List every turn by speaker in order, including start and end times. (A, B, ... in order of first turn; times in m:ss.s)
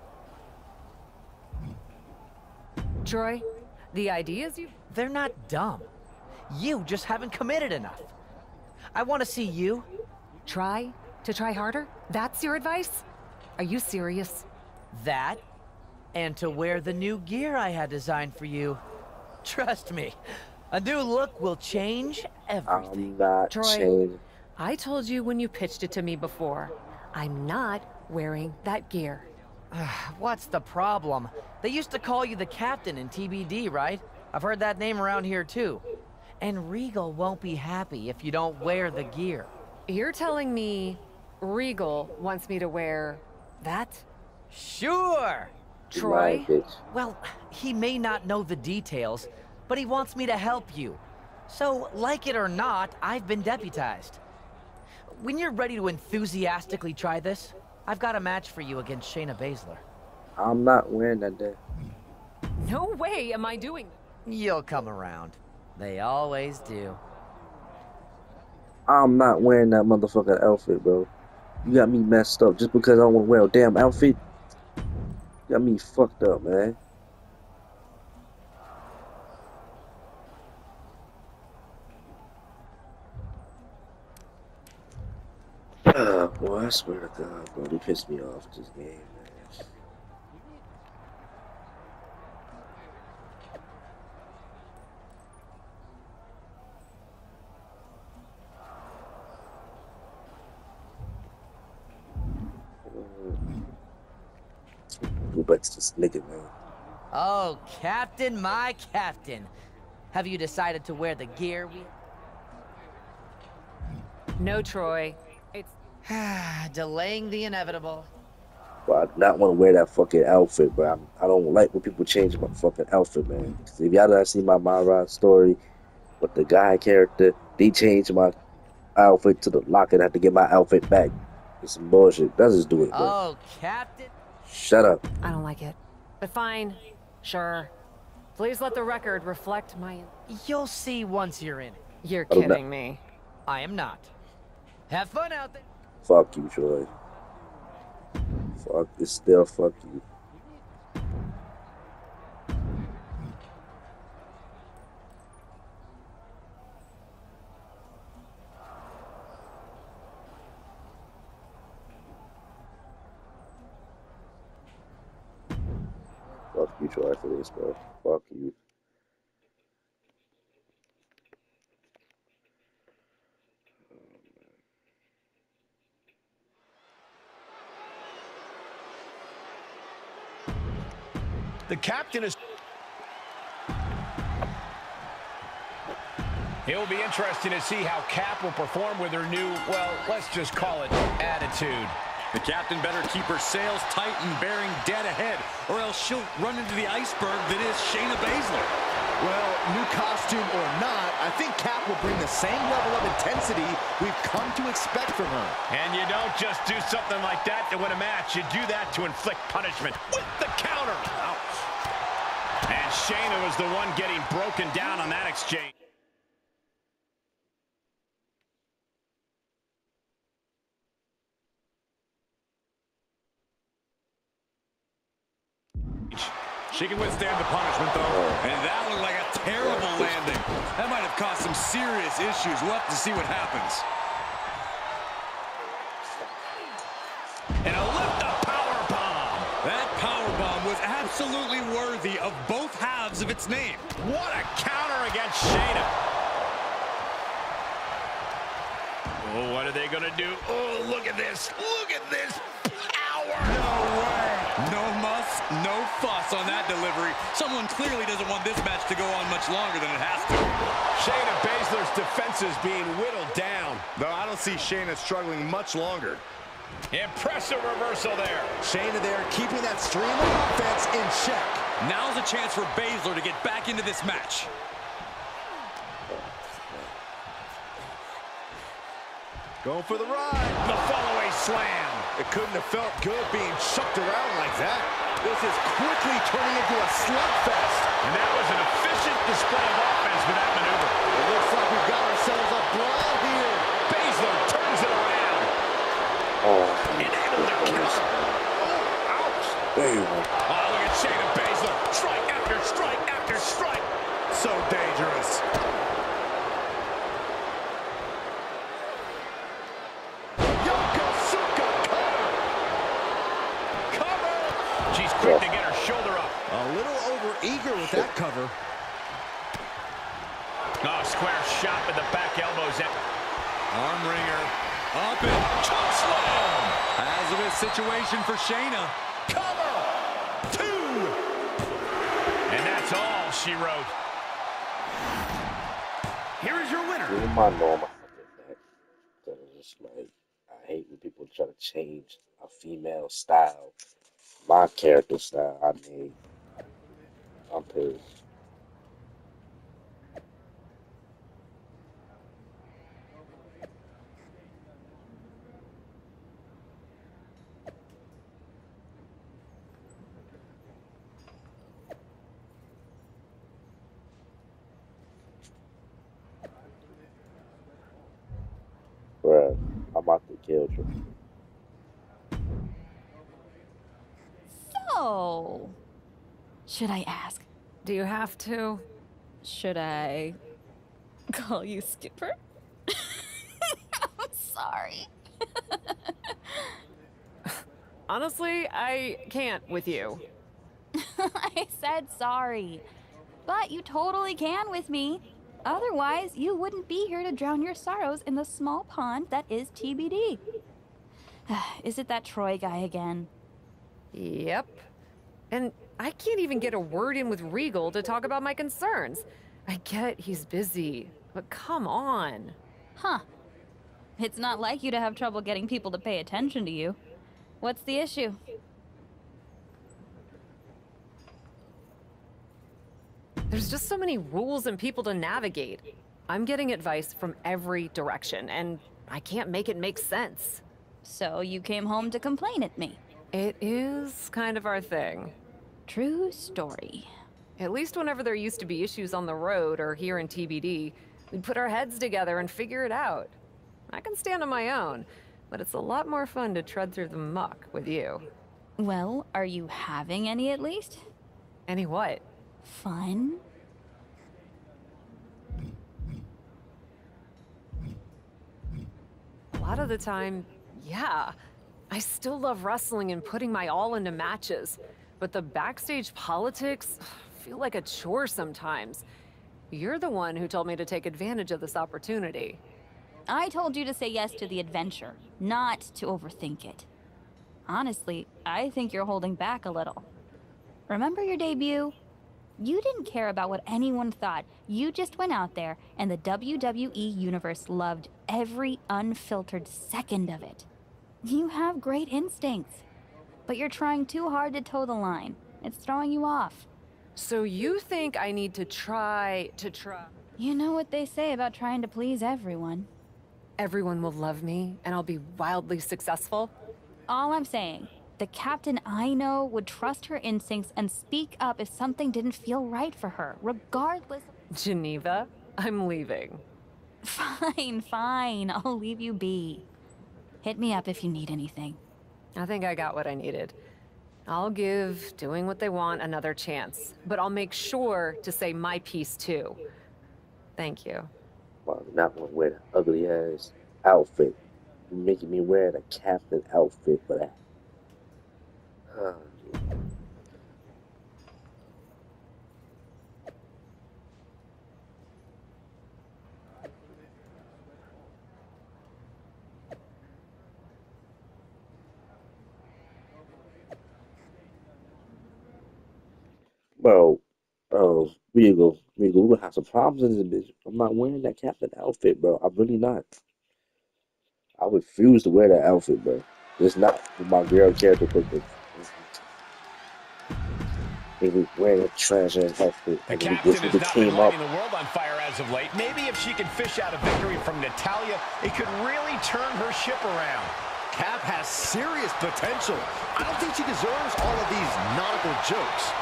0:03.0-0:04.7 A
0:04.9-0:05.9 B
0:06.5-0:08.1 B
0:08.9-0:09.9 B
0:10.5-0:13.0 A
0:13.6-0:14.5 A
0:14.9-0:15.4 B
0:16.1-0:18.8 B
0:19.4-0:20.2 B
0:20.7-0:23.1 B
0:22.7-0:24.2 C
0:23.5-0:23.9 A
0:24.6-0:29.3 A
0:29.7-0:35.8 B
0:36.4-0:39.5 B
0:39.9-0:44.0 A
0:44.5-0:45.5 B
0:45.9-0:46.8 C
0:45.9-0:46.5 A
0:46.9-0:54.2 B
0:55.1-0:59.8 B
1:00.4-1:01.6 C
1:02.6-1:04.0 A
1:04.2-1:07.0 B
1:08.9-1:11.1 C
1:11.6-1:14.2 C
1:15.5-1:16.8 C
1:25.8-1:29.7 C
1:42.8-1:43.4 C
1:45.0-1:46.5 C
1:47.1-1:49.5 B
1:50.1-1:51.9 B
1:54.4-1:55.7 A
1:56.0-1:58.1 B
1:58.9-2:05.6 C
2:06.2-2:08.4 C
2:08.9-2:13.2 C
2:12.9-2:14.1 B
2:14.4-2:15.0 C
2:15.2-2:17.7 A
2:18.3-2:20.1 A
2:20.3-2:21.8 B
2:22.0-2:23.0 A
2:22.3-2:22.6 C
2:23.5-2:24.1 B
2:24.9-2:25.6 B
2:26.0-2:26.9 C
2:28.6-2:30.0 C
2:46.5-2:48.5 C
2:53.9-2:54.4 C
3:02.0-3:02.3 D
3:06.6-3:12.0 D
3:12.3-3:18.7 E
3:19.2-3:25.6 F
3:25.7-3:31.4 D
3:32.7-3:35.7 D
3:46.1-3:53.8 E
3:48.0-3:48.6 C
3:49.6-3:50.3 C
3:57.6-3:59.5 D
3:59.6-4:03.9 E
4:04.0-4:05.9 D
4:09.2-4:13.6 D
4:13.4-4:20.6 E
4:21.0-4:23.8 D
4:23.9-4:26.2 F
4:26.9-4:28.6 D
4:28.6-4:31.6 F
4:31.8-4:34.5 E
4:36.1-4:36.9 C
4:39.6-4:40.6 F
4:40.6-4:42.1 D
4:42.1-4:47.9 F
4:48.0-4:51.0 D
4:51.1-4:53.7 F
4:53.8-4:55.5 D
4:56.4-4:58.4 C
4:57.0-4:58.0 D
4:58.6-4:59.6 F
4:59.7-5:00.3 C
5:00.5-5:03.9 D
5:10.6-5:12.4 F
5:13.9-5:14.8 F
5:14.9-5:16.4 D
5:15.2-5:15.5 C
5:16.5-5:18.5 F
5:17.8-5:18.1 C
5:20.8-5:23.0 D
5:23.7-5:25.6 E
5:25.7-5:26.7 D
5:26.8-5:28.9 E
5:29.3-5:29.8 F
5:30.5-5:31.1 F
5:32.5-5:34.0 D
5:37.1-5:38.6 C
5:39.2-5:43.7 C
5:44.4-5:46.2 C
5:47.5-5:48.1 C
6:09.2-6:10.9 C
6:14.5-6:15.8 G
6:16.7-6:17.5 G
6:17.8-6:18.8 A
6:19.4-6:20.4 G
6:21.3-6:22.4 G
6:22.9-6:25.1 G
6:25.7-6:26.7 G
6:27.5-6:30.2 A
6:31.0-6:32.8 G
6:33.5-6:40.4 G
6:41.5-6:43.3 G
6:44.1-6:44.8 A
6:45.5-6:52.6 A
6:53.0-6:53.2 G
6:54.2-6:57.0 G
6:57.6-6:58.4 G
7:03.5-7:10.6 A
7:11.0-7:13.0 G
7:13.3-7:15.4 A
7:15.9-7:17.1 G
7:17.6-7:23.4 A
7:23.9-7:28.2 A
7:28.8-7:31.0 G
7:31.7-7:32.2 A
7:32.6-7:33.4 G
7:39.5-7:41.4 A
7:41.9-7:49.0 A
7:49.7-7:52.6 A
7:53.3-7:56.9 G
7:57.7-8:00.1 G
8:00.9-8:02.0 G
8:02.6-8:10.6 G
8:11.2-8:12.8 G
8:13.5-8:16.6 G
8:17.2-8:20.1 A
8:20.4-8:22.9 G
8:23.6-8:26.5 A
8:27.1-8:34.3 G
8:34.5-8:36.4 A
8:37.0-8:39.7 G
8:40.4-8:41.8 G
8:42.4-8:43.6 A
8:44.3-8:49.6 A
8:50.6-8:51.1 A
8:51.6-8:54.4 C
8:54.9-8:57.4 C
8:58.9-8:59.7 C
9:16.8-9:23.1 C
9:24.6-9:29.2 C
9:31.2-9:34.4 C
9:33.1-9:40.5 D
9:40.9-9:45.9 F